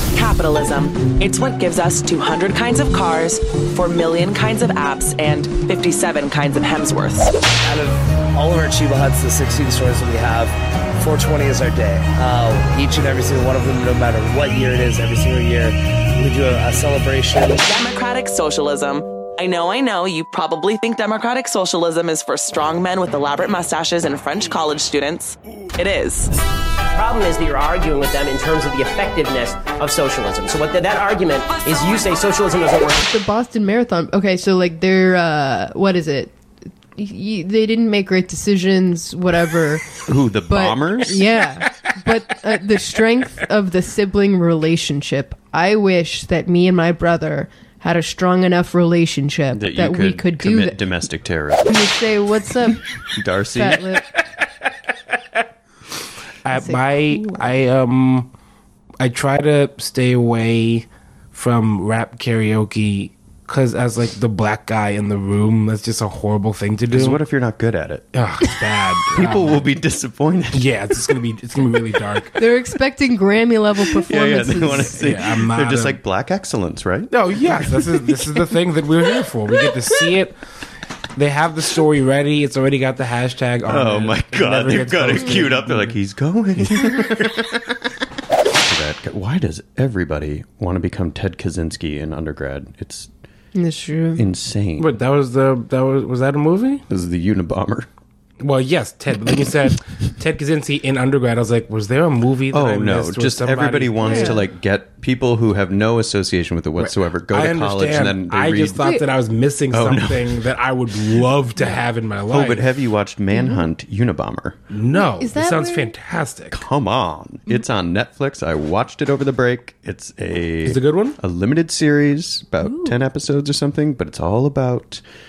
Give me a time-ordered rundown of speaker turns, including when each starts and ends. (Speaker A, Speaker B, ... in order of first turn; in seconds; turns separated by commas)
Speaker A: 0.1-7.3, Speaker B: 7.6-17.6, Speaker A: 17.6-26.3, Speaker C: 26.9-33.0, Speaker D: 33.0-36.4, Speaker D: 37.0-40.0, Speaker E: 40.1-41.3, Speaker D: 40.5-50.8, Speaker E: 49.5-51.7, Speaker D: 51.6-53.0, Speaker E: 53.1-53.9, Speaker D: 53.5-54.0, Speaker F: 56.4-58.3, Speaker D: 56.5-57.5, Speaker F: 59.0-67.2, Speaker E: 66.9-68.1, Speaker F: 68.1-69.7, Speaker E: 69.1-70.8, Speaker F: 70.5-72.4, Speaker D: 72.4-75.0, Speaker E: 74.0-78.3, Speaker F: 75.0-76.0, Speaker F: 77.1-80.4, Speaker F: 81.2-85.9, Speaker E: 83.7-87.8, Speaker E: 88.7-93.1, Speaker D: 93.5-94.2, Speaker E: 94.2-94.9, Speaker F: 94.8-96.8, Speaker E: 96.9-97.9, Speaker F: 98.4-104.4, Speaker E: 102.5-108.8, Speaker D: 104.0-104.4, Speaker F: 106.8-112.7, Speaker D: 108.8-109.1, Speaker E: 109.7-110.4, Speaker E: 112.3-114.6, Speaker D: 113.3-113.7, Speaker F: 114.7-116.6, Speaker D: 114.9-116.0, Speaker E: 116.5-125.0, Speaker F: 120.6-121.2, Speaker D: 122.6-123.0